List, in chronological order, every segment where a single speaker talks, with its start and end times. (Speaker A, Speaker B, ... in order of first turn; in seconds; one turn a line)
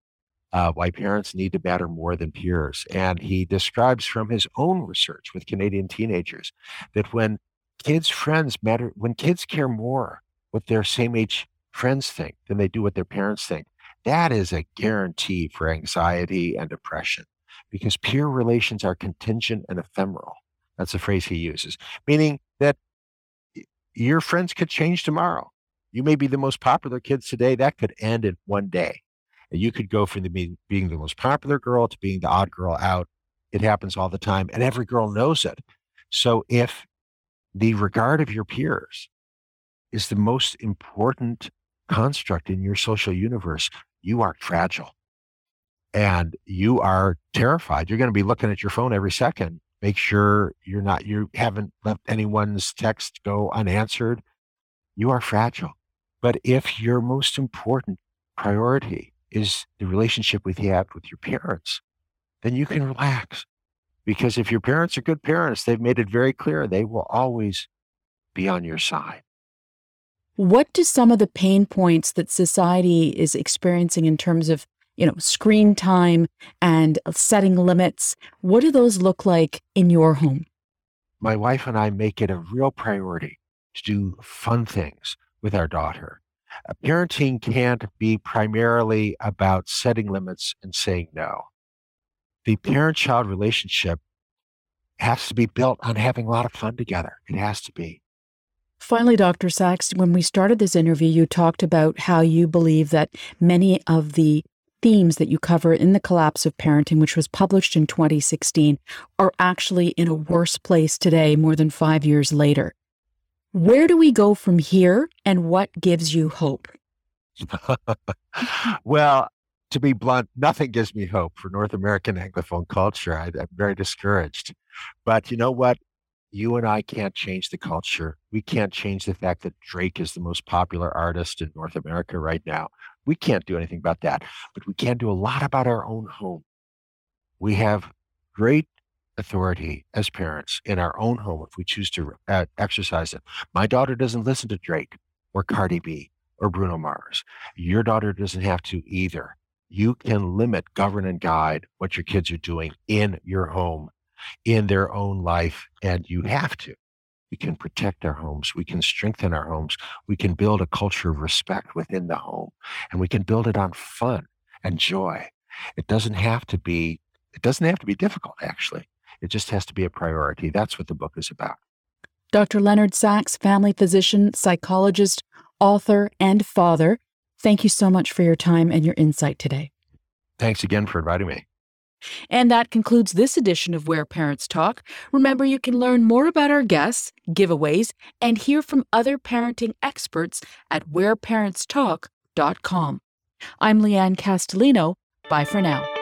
Speaker A: 0.5-22.8
Speaker A: 23.6-36.9
Speaker A: 37.5-39.1
Speaker A: 39.9-44.9
Speaker A: 45.9-54.2
Speaker A: 55.0-61.8
Speaker A: 62.4-63.5
Speaker A: 64.0-67.7
Speaker A: 68.3-69.2
Speaker B: 70.4-80.5
Speaker A: 81.2-86.2
Speaker A: 86.7-91.5
Speaker A: 92.5-94.0
Speaker A: 95.0-98.0
Speaker B: 98.8-112.7
Speaker B: 113.5-116.7
Speaker A: 117.4-124.5
Speaker A: 125.0-125.8
Speaker A: 126.3-136.4
Speaker A: 137.4-153.9
Speaker A: 154.4-156.8
Speaker A: 157.3-171.6
Speaker B: 172.3-179.7
Speaker A: 180.4-181.4
Speaker B: 182.3-193.0
Speaker B: 193.6-195.9